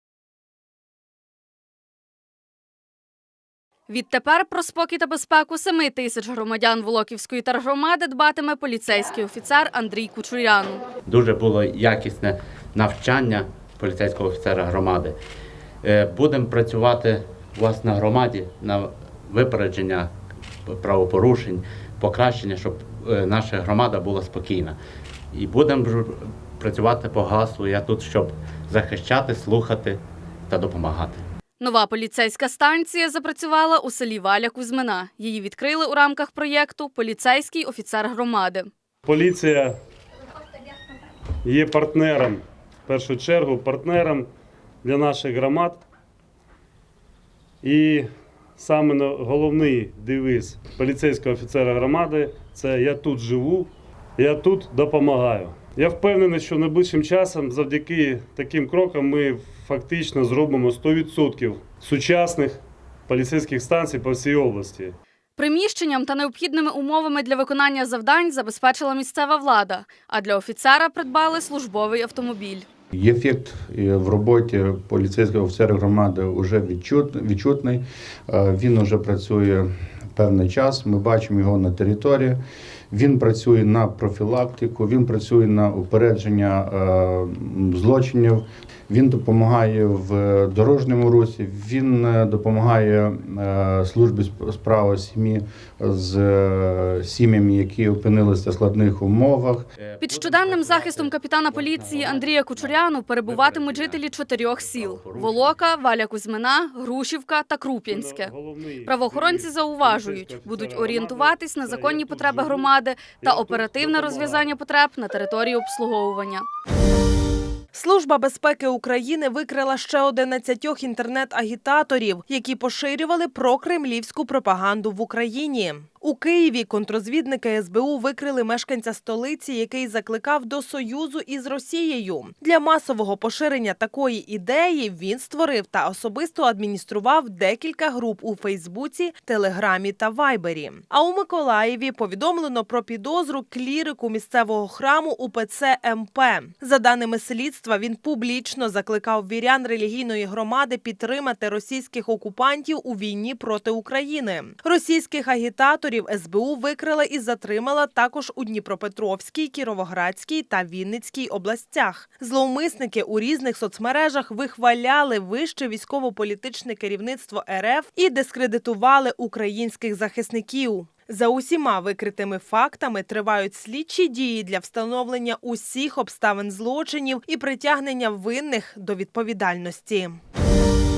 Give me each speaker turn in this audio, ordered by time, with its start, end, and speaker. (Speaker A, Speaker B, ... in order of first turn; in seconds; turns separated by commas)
Speaker A: 3.9-10.8, Speaker B: 11.1-15.2, Speaker B: 15.8-20.1, Speaker B: 20.6-24.8, Speaker B: 25.3-31.2, Speaker A: 31.6-38.7, Speaker C: 39.0-39.8, Speaker C: 41.5-44.3, Speaker C: 44.8-45.8, Speaker C: 47.6-48.1, Speaker C: 48.6-64.9, Speaker A: 65.4-72.7, Speaker D: 72.9-82.4, Speaker D: 82.9-99.6, Speaker B: 99.8-105.6, Speaker A: 100.0-108.3, Speaker C: 107.8-114.6, Speaker A: 108.8-116.5, Speaker E: 117.7-180.2